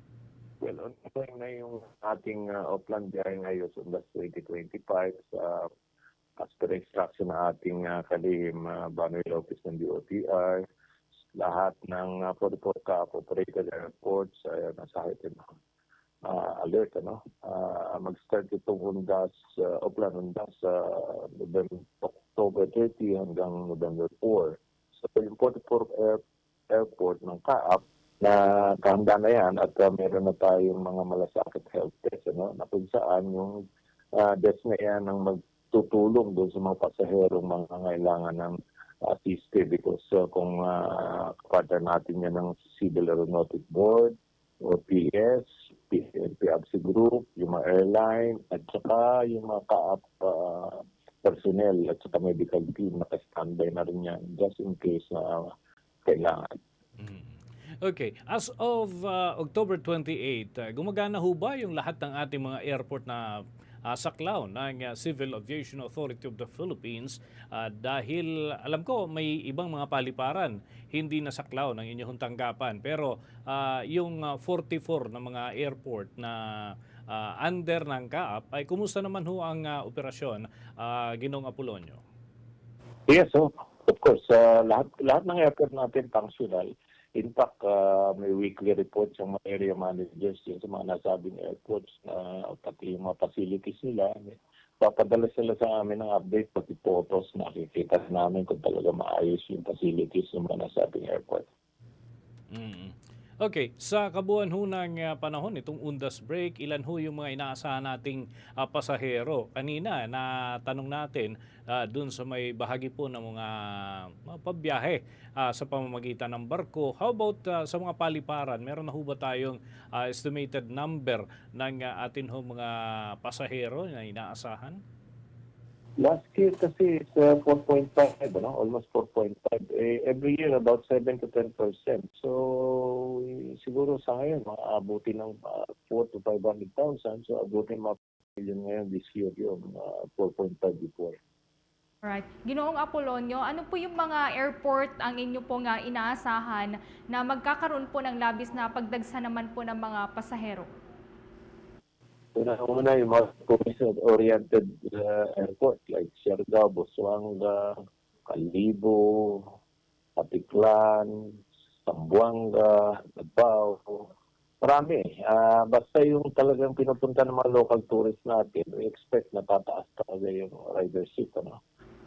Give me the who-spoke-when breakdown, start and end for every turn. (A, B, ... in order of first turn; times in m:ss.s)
0:00.6-0:05.7 A
0:06.4-0:10.6 A
0:11.3-0:15.4 A
0:16.2-0:26.2 A
0:26.7-0:55.5 A
0:56.0-0:56.5 A
0:57.0-1:22.0 B
1:23.1-1:41.5 A
1:42.5-2:04.8 B
2:06.0-2:21.2 A
2:22.0-2:30.7 C
2:32.3-2:39.5 A
2:40.2-2:41.1 A
2:41.8-2:44.1 A
2:44.6-2:51.6 A